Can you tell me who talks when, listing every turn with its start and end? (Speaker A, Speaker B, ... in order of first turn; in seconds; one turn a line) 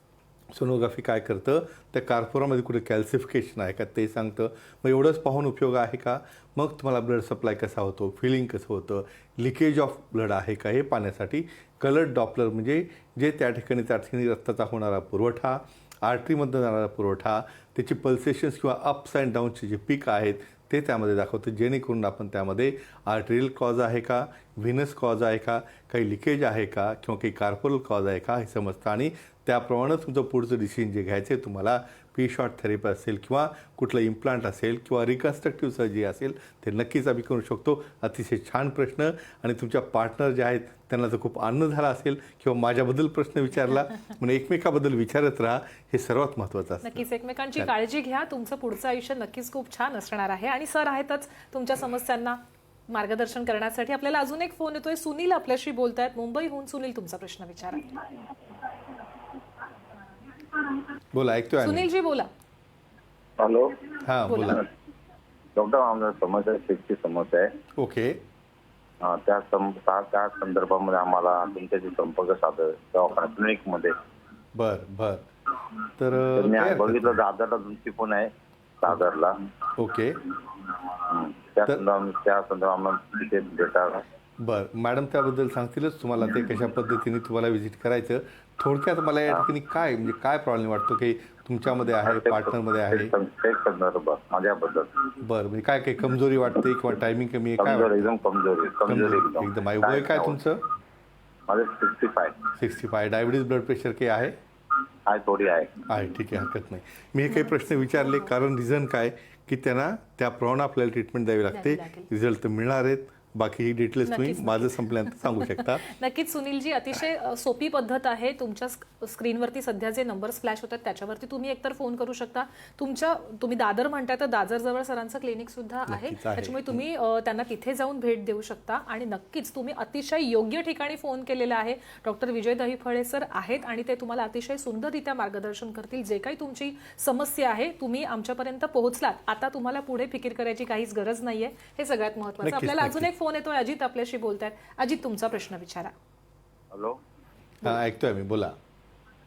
Speaker A: 0.5-47.0
Speaker B: 46.8-57.9
Speaker A: 61.1-61.9
Speaker B: 61.6-62.3
Speaker C: 63.4-63.9
Speaker A: 64.0-64.7
Speaker B: 64.3-64.6
Speaker C: 65.5-67.5
Speaker A: 67.8-68.2
Speaker C: 69.0-74.0
Speaker A: 74.5-75.3
Speaker A: 76.0-77.2
Speaker C: 76.3-78.3
Speaker C: 78.8-79.4
Speaker A: 79.8-80.2
Speaker C: 81.0-84.0
Speaker A: 84.4-93.1
Speaker C: 92.0-95.1
Speaker A: 95.2-98.1
Speaker C: 97.6-100.4
Speaker A: 98.9-100.6
Speaker C: 101.5-102.5
Speaker A: 102.5-104.4
Speaker C: 105.1-105.9
Speaker A: 105.9-115.8
Speaker B: 108.0-108.3
Speaker B: 111.5-112.1
Speaker B: 114.1-145.9
Speaker A: 125.9-126.8
Speaker A: 142.4-143.1
Speaker C: 146.7-147.0
Speaker A: 147.6-148.6